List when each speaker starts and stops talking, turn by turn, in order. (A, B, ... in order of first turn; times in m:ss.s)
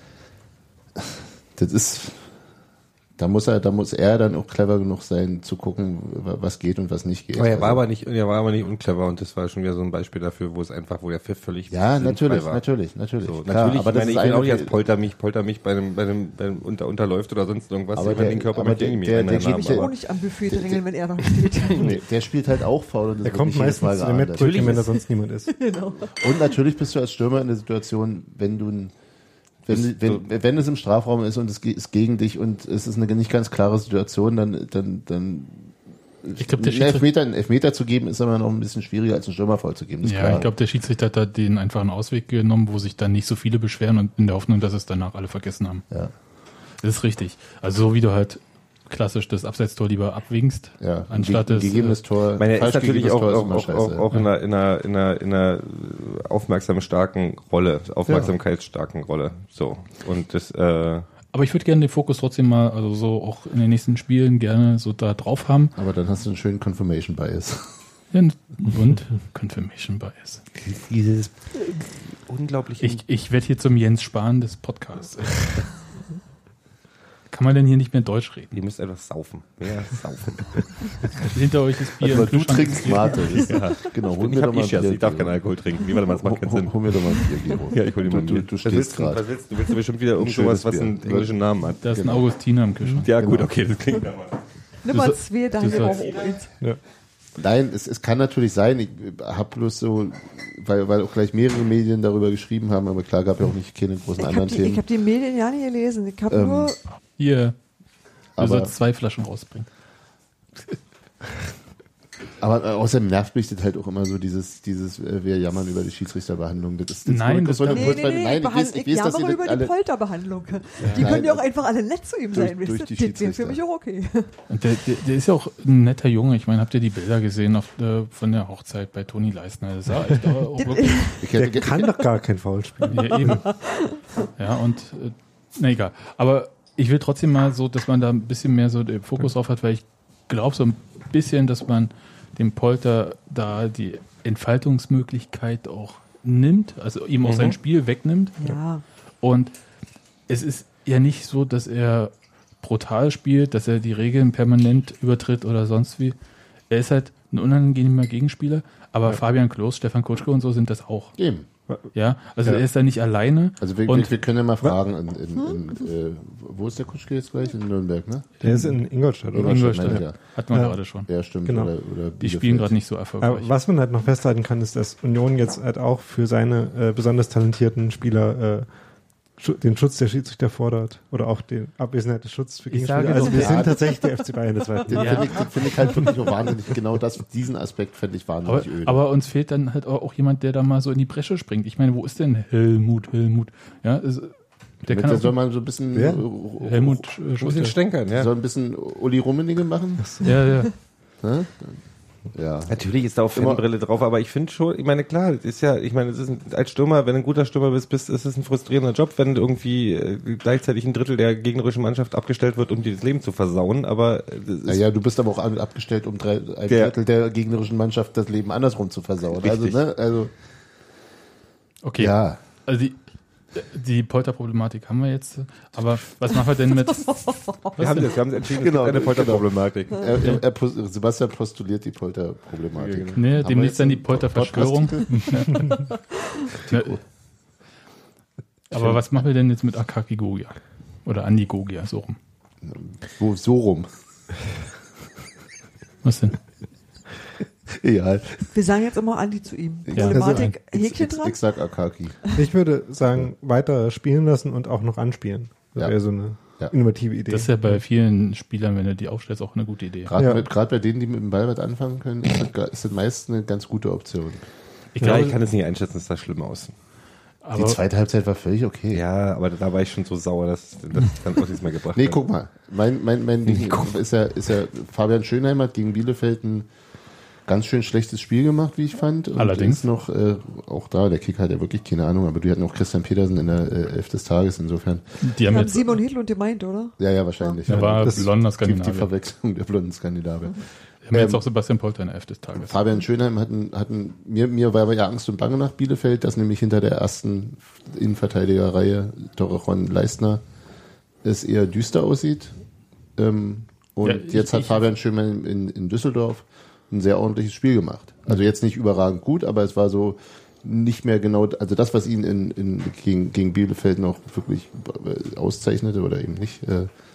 0:01.0-0:02.3 A
0:03.2-0:07.8 A
0:07.3-0:12.7 B
0:11.7-0:14.7 A
0:13.2-0:19.9 B
0:17.9-0:20.0 A
0:19.4-0:22.0 C
0:20.5-0:20.8 A
0:21.8-0:24.8 A
0:23.2-0:25.6 D
0:24.4-0:24.8 B
0:25.5-0:26.5 C
0:26.2-0:28.9 A
0:29.6-0:40.5 A
0:29.7-0:30.2 B
0:36.4-0:37.0 E
0:40.0-0:45.8 E
0:46.8-0:52.0 E
0:50.8-0:54.0 A
0:52.4-1:01.1 B
1:01.3-1:05.8 E
1:05.8-1:07.8 A
1:08.1-1:10.4 E
1:10.6-1:13.0 B
1:12.8-1:15.9 E
1:17.3-1:18.5 E
1:18.5-1:20.8 B
1:21.2-1:23.2 E
1:22.0-1:25.4 A
1:23.5-1:31.9 B
1:26.1-1:29.4 A
1:30.2-1:32.3 A
1:31.8-1:33.1 E
1:33.0-1:34.5 B
1:33.2-1:33.7 A
1:34.8-1:36.6 C
1:34.9-1:36.1 E
1:37.4-1:44.8 A
1:44.2-1:46.8 C
1:46.3-1:46.7 A
1:47.2-1:47.6 E
1:48.3-1:49.7 E
1:48.4-1:48.7 A
1:52.4-1:59.7 A
1:57.1-1:58.0 E
1:57.7-2:04.3 C
2:00.8-2:01.1 E
2:00.8-2:01.6 A
2:02.3-2:03.6 A
2:04.5-2:11.0 E
2:10.6-2:11.3 C
2:11.2-2:11.8 A
2:11.3-2:13.4 D
2:12.9-2:13.6 E
2:13.1-2:14.1 C
2:14.4-2:28.6 E
2:27.2-2:27.6 B
2:28.4-2:28.8 C
2:29.2-2:29.5 E
2:30.3-2:36.2 E
2:36.7-2:41.2 E
2:41.2-2:41.5 A
2:41.9-2:44.2 E
2:43.6-2:48.4 A
2:45.4-2:45.6 C
2:48.4-2:48.8 E
2:48.4-2:50.8 D
2:49.3-2:50.2 A
2:49.3-2:51.1 E
2:51.1-2:52.8 A
2:51.4-2:51.7 D
2:52.2-2:53.5 E
2:53.2-2:58.7 D
2:59.4-3:05.4 D
3:02.7-3:03.7 E
3:03.2-3:03.8 A
3:04.9-3:09.0 A
3:04.9-3:05.4 E
3:08.5-3:15.4 E
3:14.9-3:17.1 A
3:15.9-3:16.2 D
3:16.6-3:17.8 E
3:17.4-3:18.3 B
3:18.1-3:20.2 A
3:20.0-3:20.2 D
3:20.2-3:20.8 E
3:21.2-3:22.8 A
3:22.7-3:34.8 B
3:23.3-3:23.6 A
3:34.6-3:40.3 A
3:36.7-3:36.9 B
3:39.4-3:39.8 B
3:41.8-3:48.1 E
3:42.0-3:42.4 A
3:47.0-3:47.7 C
3:47.8-3:50.1 B
3:48.5-3:55.7 A
3:52.8-3:53.2 B
3:53.2-3:55.9 E
3:55.3-3:56.4 C
3:56.6-3:57.0 A
3:56.7-3:57.0 E
3:58.7-4:02.2 E
4:02.6-4:03.9 A
4:06.0-4:06.4 E
4:07.7-4:08.5 A
4:08.5-4:11.4 C
4:09.9-4:12.2 A
4:10.0-4:10.3 E
4:12.4-4:17.8 D
4:15.8-4:16.7 A
4:17.3-4:20.1 E
4:20.1-4:24.5 A
4:20.2-4:20.5 D
4:24.9-4:25.4 E
4:25.0-4:26.7 B
4:27.4-4:27.8 E
4:27.6-4:29.0 A
4:28.9-4:32.2 B
4:32.0-4:36.7 A
4:33.4-4:34.0 B
4:37.5-4:45.2 A
4:39.4-4:39.8 E
4:45.2-4:46.0 E
4:45.4-4:47.6 C
4:47.0-4:51.4 A
4:47.7-4:49.1 E
4:51.1-4:52.8 E
4:52.6-5:00.4 A
5:01.2-5:02.6 A
5:03.2-5:16.9 A
5:04.0-5:04.8 E